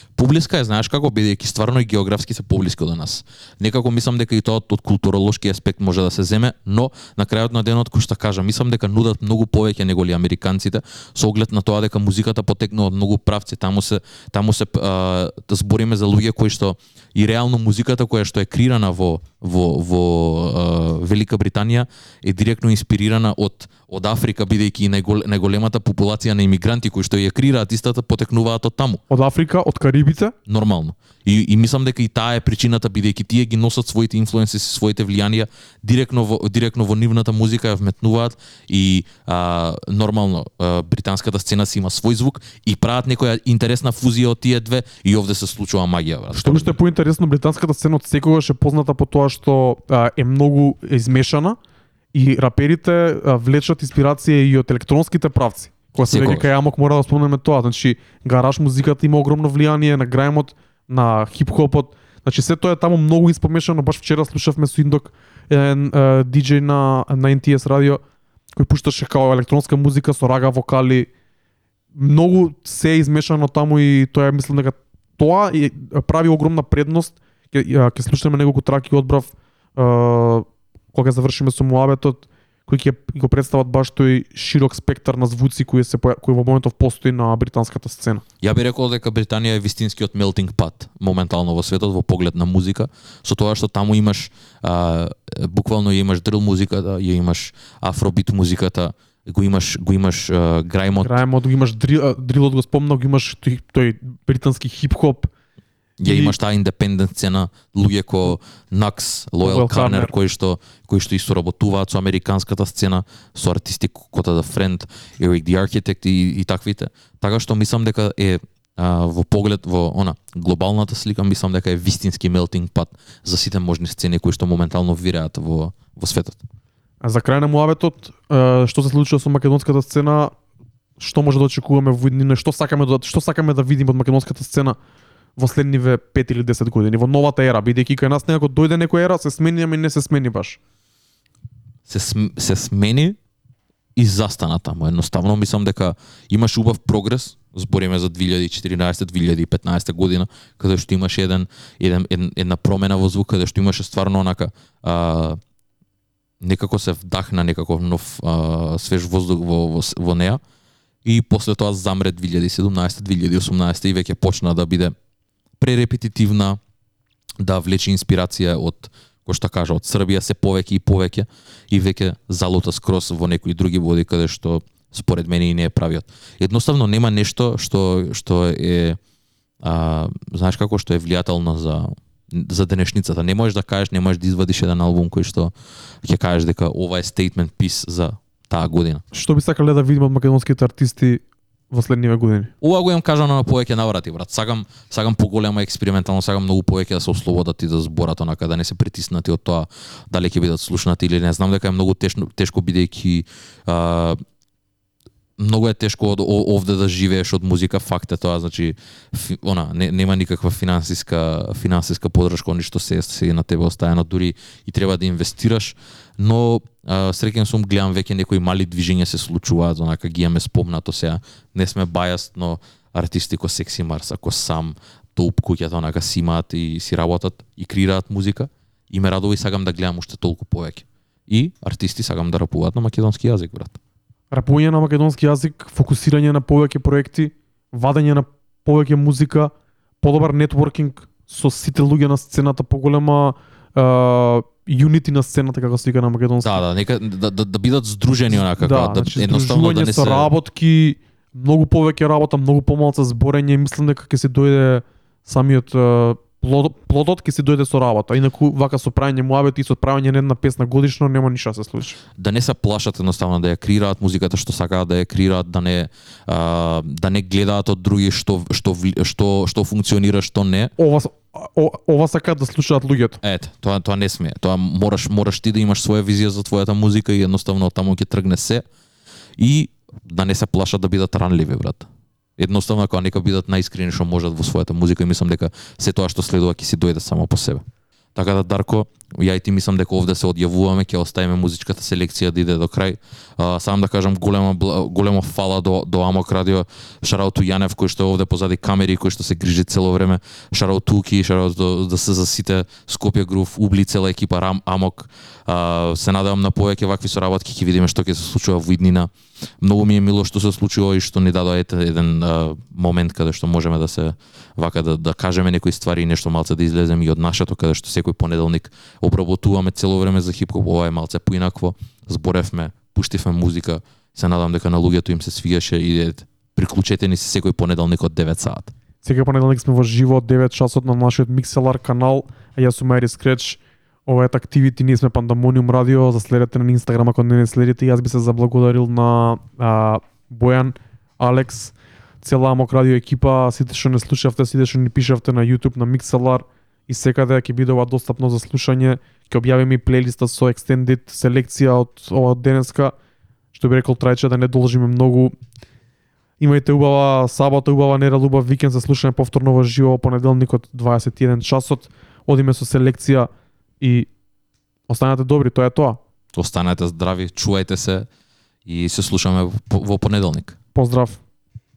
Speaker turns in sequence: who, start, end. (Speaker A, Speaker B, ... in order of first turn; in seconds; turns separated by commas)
Speaker A: 0.2-29.0, Speaker B: 29.1-30.4, Speaker A: 30.5-46.8, Speaker B: 46.3-51.6, Speaker B: 52.1-68.0, Speaker A: 56.0-56.5, Speaker B: 68.5-71.1, Speaker B: 72.0-88.2, Speaker A: 88.4-101.2, Speaker B: 100.9-105.3, Speaker A: 106.0-126.4, Speaker B: 106.0-106.3, Speaker B: 109.4-110.1, Speaker B: 127.0-130.3, Speaker B: 131.0-134.8, Speaker B: 135.4-140.6, Speaker A: 141.9-143.2, Speaker A: 144.0-155.4, Speaker A: 156.4-160.4, Speaker A: 161.0-164.9, Speaker A: 165.6-166.6, Speaker A: 167.4-179.0, Speaker A: 179.6-189.0, Speaker B: 189.1-192.5, Speaker A: 192.6-204.2, Speaker A: 205.4-233.8, Speaker B: 234.3-246.6, Speaker A: 246.4-250.3, Speaker B: 248.3-262.0, Speaker A: 262.2-270.7, Speaker B: 270.8-273.2, Speaker A: 273.2-278.6, Speaker A: 279.4-287.6, Speaker A: 288.1-328.7, Speaker B: 329.0-352.9, Speaker B: 353.5-355.3, Speaker B: 356.4-363.3, Speaker B: 363.8-364.1, Speaker B: 364.9-366.0, Speaker A: 366.3-368.1, Speaker A: 368.7-370.6, Speaker B: 370.8-371.2